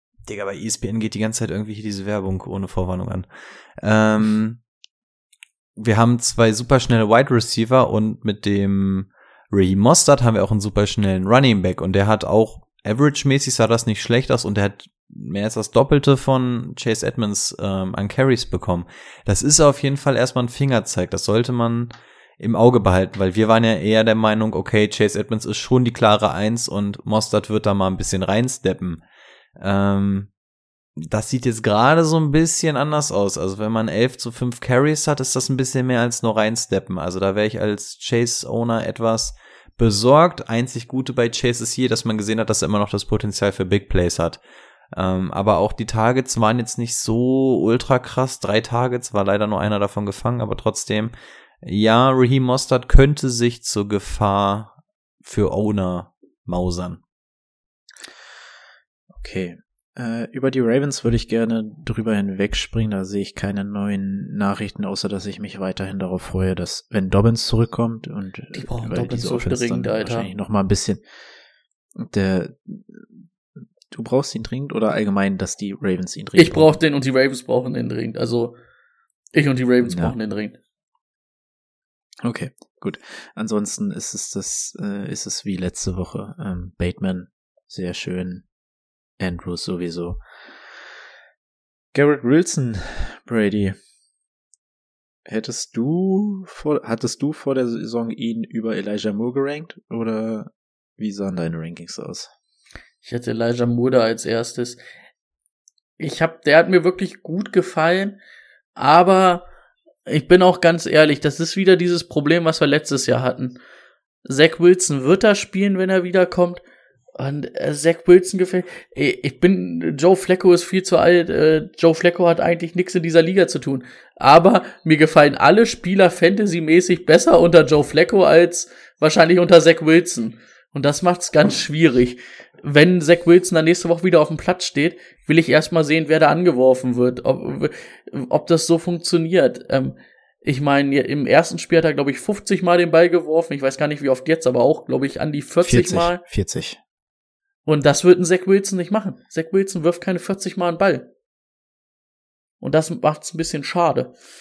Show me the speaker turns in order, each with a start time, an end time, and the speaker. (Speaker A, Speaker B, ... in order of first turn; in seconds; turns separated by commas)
Speaker A: 0.2-3.2, Speaker A: 3.8-4.6, Speaker A: 5.8-29.0, Speaker A: 29.6-30.3, Speaker A: 31.0-44.4, Speaker A: 44.9-57.0, Speaker B: 59.1-71.0, Speaker C: 68.5-70.3, Speaker B: 72.0-73.1, Speaker B: 73.9-76.8, Speaker C: 76.3-78.5, Speaker C: 79.3-80.6, Speaker B: 79.8-80.1, Speaker B: 82.2-88.5, Speaker B: 89.2-90.2, Speaker B: 91.9-93.8, Speaker B: 95.2-102.3, Speaker C: 103.0-104.8, Speaker C: 106.0-108.2, Speaker C: 108.8-109.5, Speaker C: 110.1-113.6, Speaker C: 114.2-116.6, Speaker C: 117.2-146.2, Speaker B: 145.6-146.8, Speaker C: 147.7-151.1, Speaker C: 152.6-154.1